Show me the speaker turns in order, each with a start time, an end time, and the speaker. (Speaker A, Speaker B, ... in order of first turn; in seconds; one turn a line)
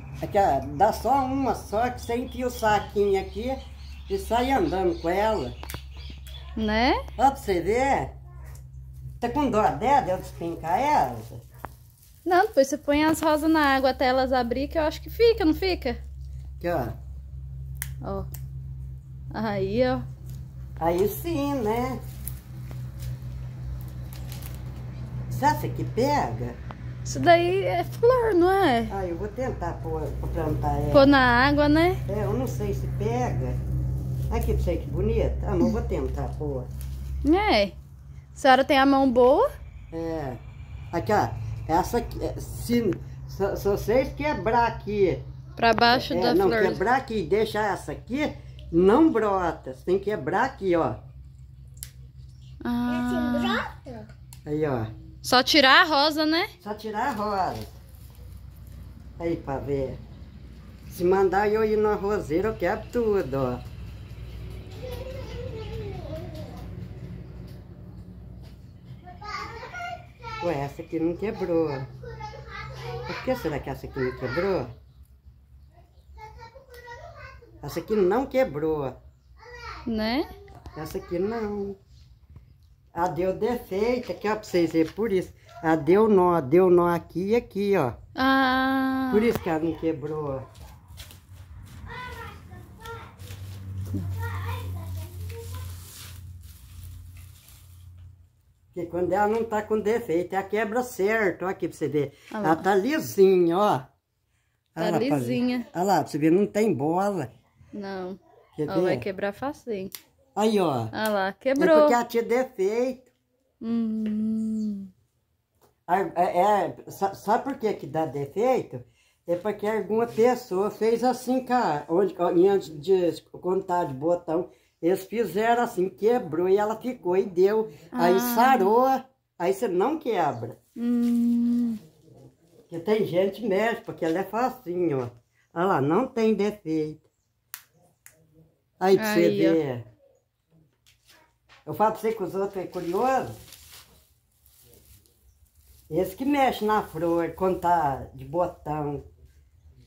Speaker A: 0.2-5.6
Speaker B: 6.6-7.0
Speaker A: 7.2-8.2
Speaker A: 9.2-11.4
Speaker B: 12.2-16.0
Speaker A: 16.6-17.0
Speaker B: 18.0-18.3
Speaker B: 19.3-20.1
Speaker A: 20.8-22.0
Speaker A: 25.3-26.6
Speaker B: 27.1-28.9
Speaker A: 28.9-31.1
Speaker B: 30.9-32.0
Speaker A: 32.1-33.6
Speaker A: 34.3-36.7
Speaker B: 37.2-37.8
Speaker B: 38.3-39.5
Speaker A: 39.9-40.4
Speaker A: 40.9-45.2
Speaker B: 45.6-46.8
Speaker A: 45.9-51.0
Speaker B: 52.6-53.6
Speaker C: 52.9-54.1
Speaker A: 54.5-54.9
Speaker B: 55.2-56.5
Speaker A: 56.6-57.8
Speaker A: 59.2-60.0
Speaker A: 60.9-63.6
Speaker C: 64.8-66.6
Speaker C: 69.2-70.3
Speaker A: 70.4-71.9
Speaker C: 72.2-73.1
Speaker A: 73.1-74.7
Speaker C: 76.7-77.4
Speaker A: 77.6-79.0
Speaker B: 79.9-80.3
Speaker A: 80.8-81.8
Speaker A: 82.9-88.0
Speaker B: 88.2-89.3
Speaker A: 89.1-90.5
Speaker A: 98.7-103.9
Speaker B: 102.3-102.7
Speaker A: 104.8-107.3
Speaker B: 104.8-105.7
Speaker B: 107.7-109.9
Speaker A: 108.6-109.0
Speaker A: 110.4-110.9
Speaker B: 110.9-112.0
Speaker A: 111.6-113.1
Speaker B: 113.6-114.9
Speaker A: 115.9-130.6
Speaker B: 127.9-128.7
Speaker B: 130.8-131.8
Speaker A: 132.7-137.1
Speaker A: 138.8-139.9
Speaker B: 138.9-139.6
Speaker A: 141.7-143.4
Speaker A: 145.9-149.0